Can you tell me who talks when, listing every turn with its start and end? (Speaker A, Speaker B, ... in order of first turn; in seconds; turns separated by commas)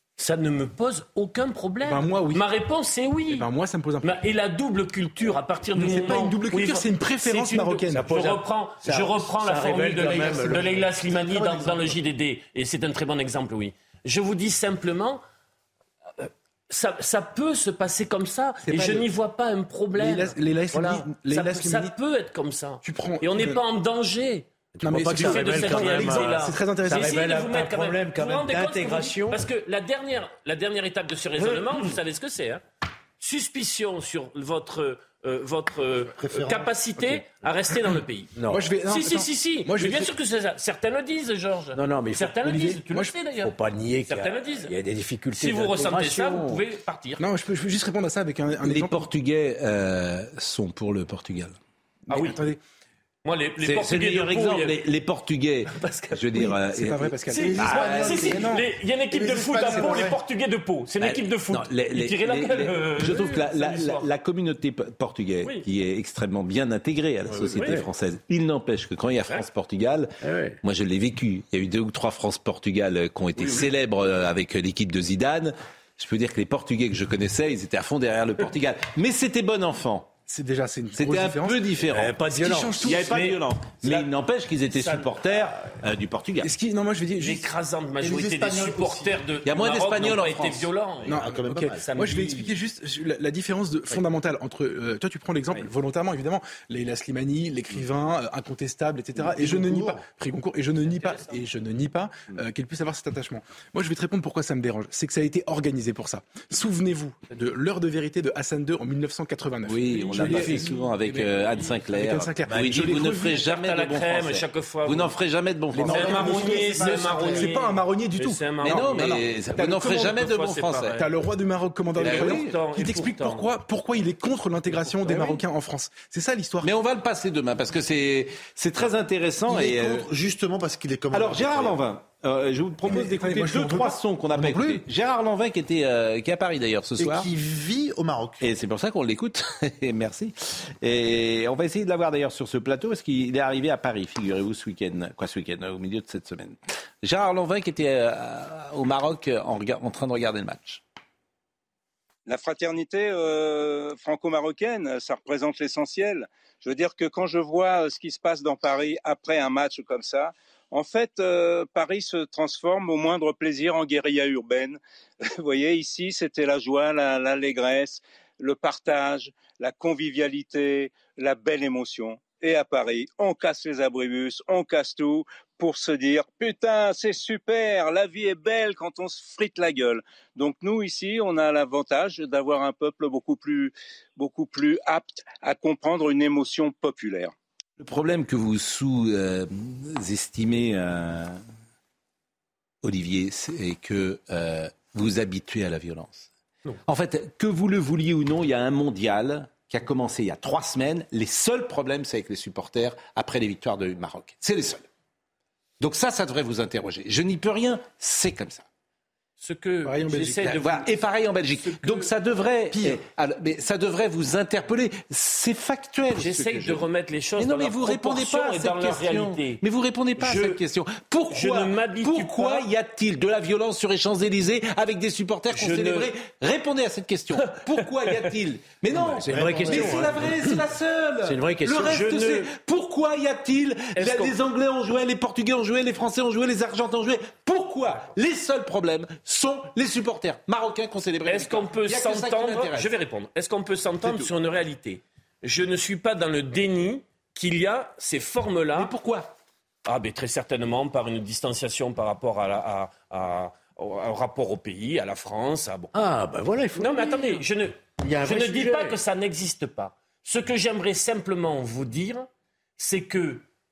Speaker A: 0.2-3.5, Speaker B: 1.8-2.4, Speaker B: 3.3-4.2, Speaker A: 4.0-15.2, Speaker B: 5.7-8.1, Speaker C: 7.8-11.0, Speaker D: 11.1-11.9, Speaker A: 16.2-24.5, Speaker B: 18.7-19.0, Speaker B: 19.9-21.9, Speaker B: 22.8-23.6, Speaker C: 24.8-29.4, Speaker B: 24.8-27.1, Speaker A: 25.1-32.6, Speaker E: 25.8-26.2, Speaker A: 33.2-43.5, Speaker D: 36.2-36.7, Speaker C: 38.4-38.7, Speaker B: 38.5-40.1, Speaker C: 41.7-42.7, Speaker B: 42.5-43.1, Speaker C: 43.4-46.6, Speaker A: 44.1-44.7, Speaker A: 45.4-47.2, Speaker B: 47.2-49.0, Speaker E: 48.6-51.5, Speaker B: 52.1-52.6, Speaker A: 52.1-52.4, Speaker A: 53.2-54.8, Speaker E: 53.6-58.3, Speaker A: 55.7-56.5, Speaker B: 56.3-58.6, Speaker A: 57.3-64.0, Speaker D: 57.4-60.2, Speaker E: 59.7-60.0, Speaker E: 61.0-80.1, Speaker C: 67.3-67.9, Speaker A: 67.5-67.8, Speaker C: 70.2-70.6, Speaker B: 80.3-81.8, Speaker E: 81.0-82.2, Speaker C: 81.8-83.3, Speaker B: 82.3-83.1, Speaker E: 82.7-86.5, Speaker A: 83.0-84.1, Speaker A: 84.7-85.1, Speaker B: 86.4-87.5, Speaker A: 87.2-92.5, Speaker D: 88.0-89.2, Speaker E: 89.4-90.7, Speaker B: 91.0-113.3, Speaker D: 91.1-91.8, Speaker D: 99.2-100.0, Speaker E: 109.6-116.7, Speaker A: 109.9-110.7, Speaker C: 110.1-110.7, Speaker C: 112.5-113.0, Speaker A: 113.1-115.1, Speaker B: 115.7-120.1, Speaker A: 115.8-121.1, Speaker D: 115.8-117.5, Speaker E: 118.6-121.0, Speaker B: 120.9-126.7, Speaker E: 122.0-122.6, Speaker A: 122.0-123.5, Speaker A: 124.9-125.4, Speaker E: 126.6-130.1, Speaker D: 129.5-131.8, Speaker E: 131.1-137.3, Speaker B: 132.8-134.8, Speaker D: 137.0-138.5, Speaker E: 138.4-150.8, Speaker F: 152.2-187.3, Speaker E: 187.8-191.4, Speaker E: 192.8-196.3, Speaker E: 196.9-204.8, Speaker E: 205.8-208.6, Speaker A: 209.4-210.9, Speaker B: 209.8-210.7, Speaker E: 210.4-216.8, Speaker A: 211.6-212.1, Speaker D: 212.7-213.0, Speaker A: 216.1-219.6, Speaker E: 217.4-242.9, Speaker A: 220.2-220.6, Speaker A: 221.3-222.7, Speaker A: 225.5-226.1, Speaker A: 227.3-228.3, Speaker C: 228.9-230.7, Speaker A: 229.2-230.3, Speaker C: 231.2-232.3, Speaker A: 231.8-232.4, Speaker A: 233.9-234.4, Speaker A: 241.2-248.9, Speaker E: 244.0-244.3, Speaker E: 248.7-249.3, Speaker A: 249.8-255.9, Speaker C: 255.9-257.4, Speaker A: 256.8-262.3, Speaker C: 258.0-259.0, Speaker A: 262.8-263.4